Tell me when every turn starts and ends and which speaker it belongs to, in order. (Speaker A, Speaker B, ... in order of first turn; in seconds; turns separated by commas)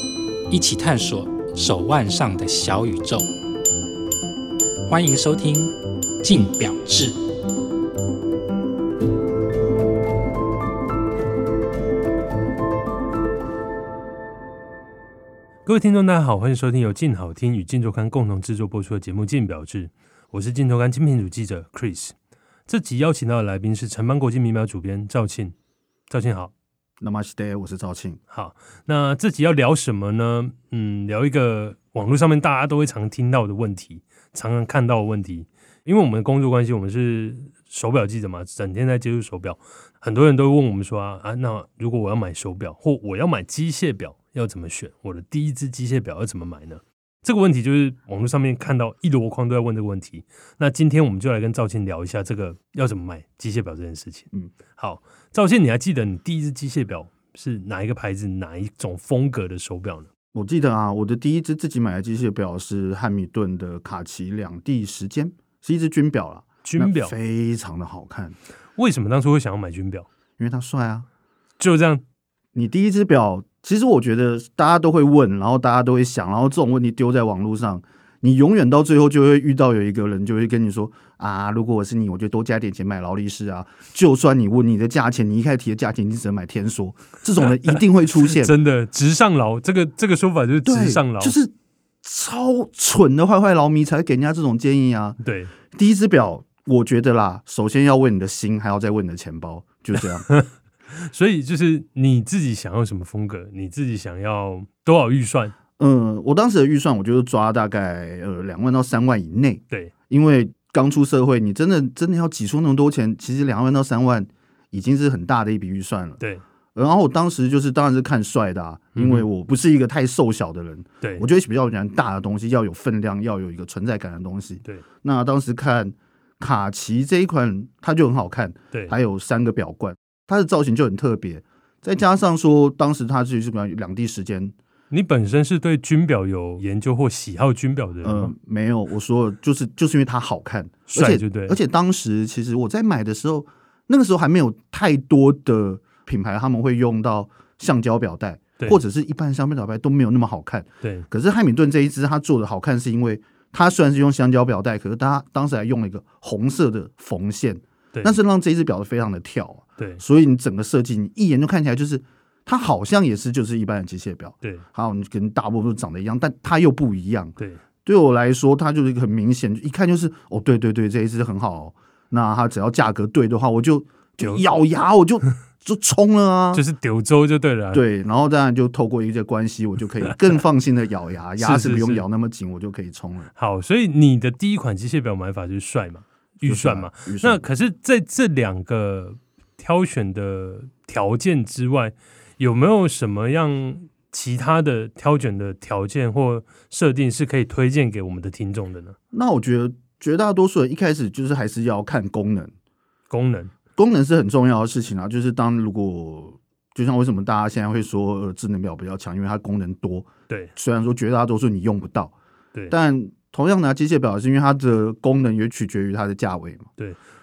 Speaker A: 0.5-3.3, Speaker A: 4.9-7.2, Speaker B: 15.7-22.1, Speaker B: 22.7-25.5, Speaker B: 26.1-26.5, Speaker C: 27.0-28.2, Speaker B: 28.3-60.1, Speaker C: 60.3-68.3, Speaker B: 66.6-67.1, Speaker B: 68.8-70.1, Speaker C: 70.4-71.0, Speaker B: 71.6-72.0, Speaker C: 72.5-88.5, Speaker B: 87.8-91.4, Speaker C: 90.6-91.5, Speaker C: 92.0-95.2, Speaker B: 95.2-95.5, Speaker C: 95.7-100.3, Speaker B: 100.3-105.5, Speaker C: 105.8-116.2, Speaker C: 116.7-134.5, Speaker B: 118.9-119.3, Speaker B: 121.0-121.3, Speaker B: 134.9-138.3, Speaker C: 138.0-176.6, Speaker B: 140.9-141.6, Speaker B: 150.8-151.1, Speaker B: 174.2-174.5, Speaker B: 176.5-177.8, Speaker C: 177.7-183.3, Speaker B: 181.4-182.1, Speaker B: 183.3-198.9, Speaker C: 186.4-187.4, Speaker C: 199.1-202.5, Speaker B: 203.1-203.5, Speaker C: 203.8-212.1, Speaker C: 212.7-216.7